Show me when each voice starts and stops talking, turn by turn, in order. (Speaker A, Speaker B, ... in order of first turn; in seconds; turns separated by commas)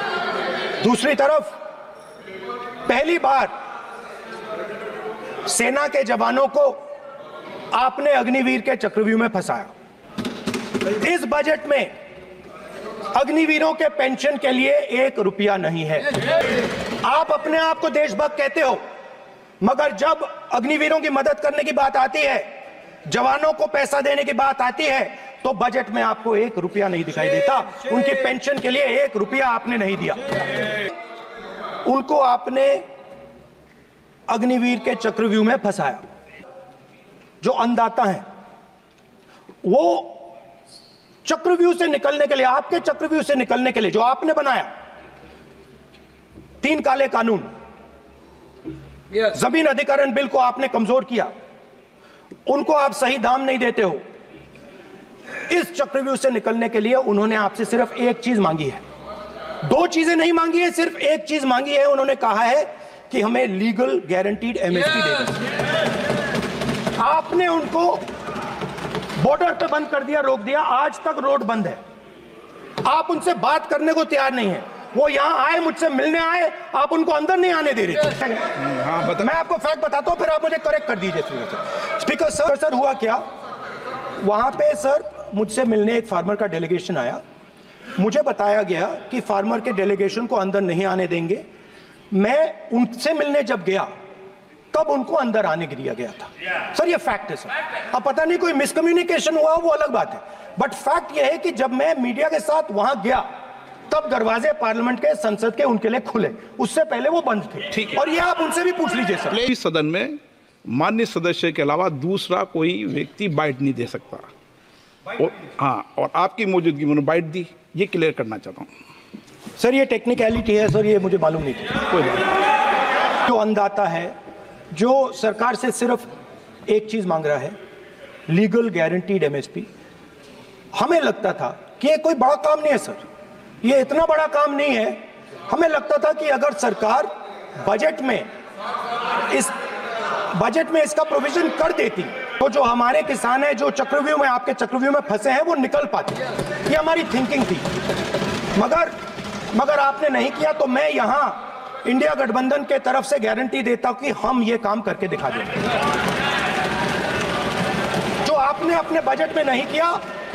Speaker A: 0.8-1.6, Speaker A: 2.9-3.5, Speaker A: 5.4-6.8, Speaker A: 7.7-9.7, Speaker A: 11.0-11.9, Speaker A: 13.1-16.1, Speaker A: 17.0-18.8, Speaker A: 19.6-22.5, Speaker A: 23.1-30.2, Speaker A: 31.8-32.9, Speaker A: 34.3-36.0, Speaker A: 37.4-38.2, Speaker A: 39.6-40.3, Speaker A: 41.2-44.7, Speaker A: 46.6-47.5, Speaker A: 49.3-51.3, Speaker A: 52.5-54.0, Speaker A: 55.5-58.8, Speaker A: 59.6-65.4, Speaker A: 67.0-68.0, Speaker A: 69.2-71.8, Speaker A: 72.8-83.2, Speaker B: 78.7-79.1, Speaker A: 84.2-87.2, Speaker A: 88.0-91.4, Speaker A: 92.1-93.9, Speaker A: 94.7-103.2, Speaker A: 103.9-109.4, Speaker B: 109.3-114.3, Speaker B: 115.2-118.7, Speaker A: 119.6-121.9, Speaker B: 121.9-122.2, Speaker A: 123.2-124.1, Speaker A: 124.7-126.1, Speaker A: 126.7-127.5, Speaker A: 128.3-129.7, Speaker A: 130.7-133.0, Speaker A: 133.6-137.1, Speaker A: 137.6-138.3, Speaker A: 139.3-139.5, Speaker A: 140.3-147.7, Speaker A: 148.6-148.9, Speaker A: 149.5-155.5, Speaker A: 158.2-160.0